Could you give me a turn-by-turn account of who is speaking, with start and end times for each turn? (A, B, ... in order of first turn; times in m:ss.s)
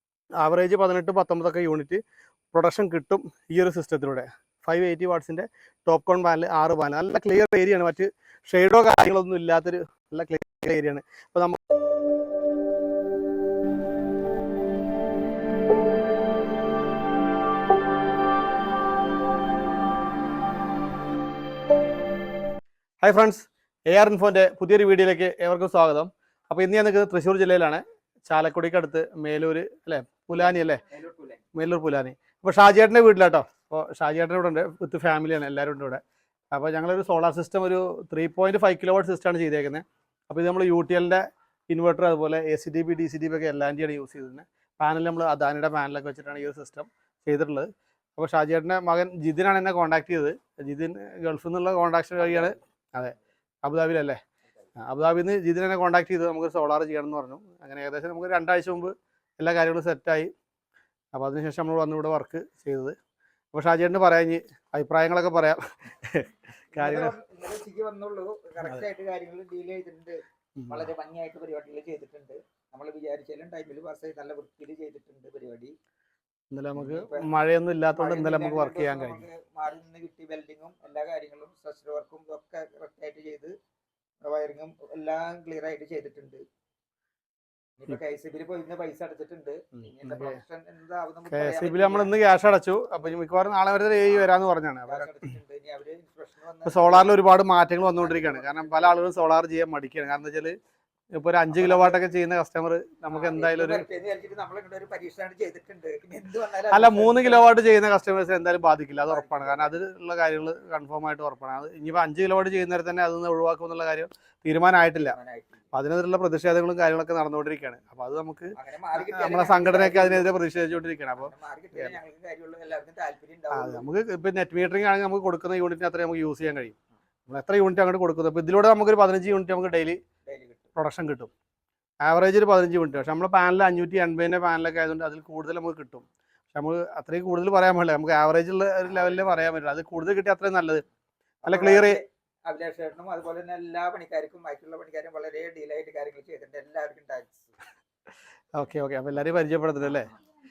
0:00.4-0:02.0 A
0:02.5-0:11.6 A
0:23.0-0:30.8 A
0:30.3-0:31.4 B
0:31.5-0:54.2 A
0:52.2-0:52.6 B
0:54.8-1:00.3 A
1:01.1-1:02.9 A
1:03.5-1:07.2 A
1:06.7-1:15.7 B
1:10.6-1:10.8 A
1:16.5-1:19.3 A
1:16.8-1:17.3 B
1:17.9-1:23.5 B
1:24.2-1:26.4 B
1:27.8-1:32.1 B
1:29.8-1:30.4 A
1:31.3-1:35.1 A
1:34.9-1:37.2 B
1:36.6-1:40.6 A
1:38.0-1:39.0 B
1:41.1-1:43.8 A
1:41.5-1:42.0 B
1:43.1-1:47.5 B
1:46.7-1:55.2 A
1:49.0-1:49.8 B
1:55.0-1:55.7 B
1:55.7-2:02.0 A
1:58.5-2:00.5 B
2:01.2-2:03.9 B
2:03.5-2:10.0 A
2:10.2-2:10.7 B
2:10.8-2:11.3 A
2:12.0-2:20.8 A
2:21.4-2:27.5 B
2:21.4-2:22.0 A
2:28.5-2:30.1 A